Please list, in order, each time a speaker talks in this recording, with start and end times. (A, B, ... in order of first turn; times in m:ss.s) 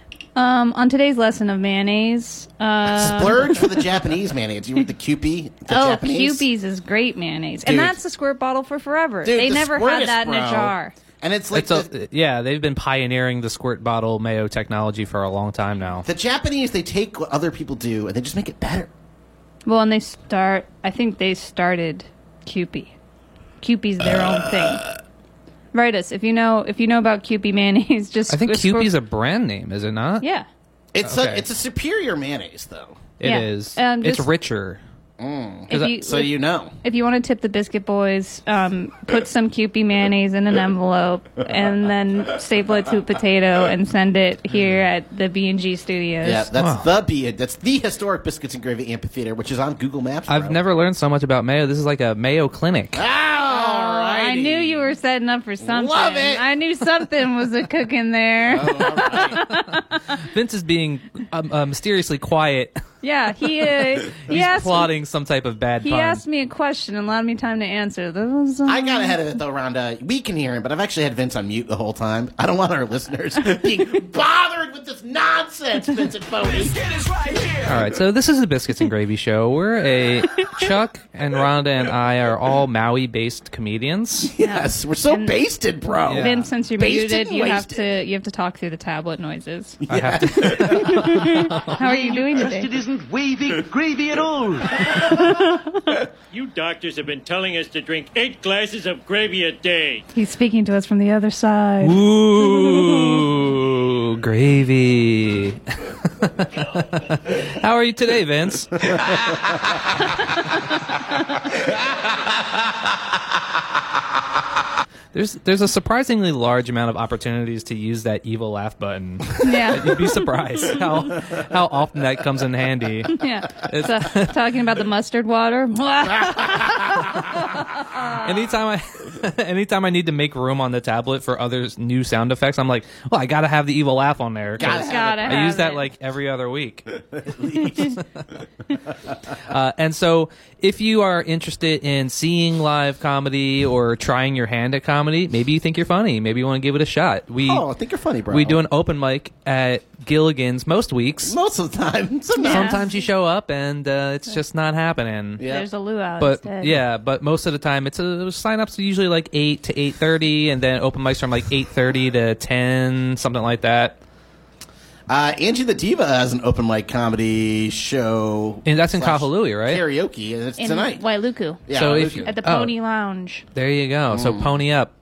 0:00.4-0:03.7 A
0:02.9-0:06.5 B
0:05.7-0:11.0 A
0:07.6-0:08.0 B
0:09.2-0:11.9 B
0:11.5-0:16.1 C
0:16.0-0:18.9 B
0:19.7-0:22.9 A
0:23.6-0:24.9 A
0:24.2-0:24.8 B
0:25.7-0:28.9 A
0:28.3-0:30.2 C
0:30.2-0:30.5 A
0:30.9-0:33.0 B
0:31.0-0:31.5 C
0:33.2-0:34.8 C
0:33.2-0:34.3 A
0:35.2-0:36.8 B
0:35.7-0:46.5 A
0:46.2-0:50.6 B
0:46.6-0:46.9 C
0:50.3-0:53.0 C
0:53.0-0:54.9 B
0:53.5-1:00.0 A
0:55.6-0:56.5 B
0:58.5-0:59.5 B
1:00.2-1:02.8 C
1:03.0-1:04.9 A
1:04.0-1:06.2 C
1:05.8-1:09.2 A
1:08.6-1:16.8 B
1:16.7-1:17.7 D
1:17.6-1:24.3 C
1:24.3-1:27.9 B
1:24.4-1:25.4 A
1:26.1-1:26.5 C
1:26.1-1:29.8 A
1:29.8-1:31.5 B
1:29.9-1:31.7 C
1:30.5-1:32.7 A
1:31.7-1:35.4 D
1:35.2-1:36.0 A
1:36.3-1:40.0 E
1:40.1-1:43.3 A
1:41.8-1:49.2 C
1:55.1-2:04.4 C
1:59.4-2:00.1 A
2:03.1-2:08.3 A
2:06.4-2:06.9 B
2:08.1-2:16.9 C
2:14.6-2:15.6 B
2:14.6-2:15.9 A
2:17.1-2:18.0 B
2:19.4-2:27.6 C
2:27.4-2:28.6 B
2:28.3-2:31.3 C
2:31.3-2:32.8 B
2:32.4-2:32.9 A
2:32.5-2:35.4 C
2:35.4-2:35.7 B
2:35.4-2:36.8 A
2:36.2-2:44.0 C
2:45.1-2:51.0 B
2:48.7-2:49.8 C
2:50.6-2:53.4 A
2:51.7-2:52.3 B
2:51.7-2:52.7 C
2:53.6-2:54.9 C
2:54.1-2:54.5 B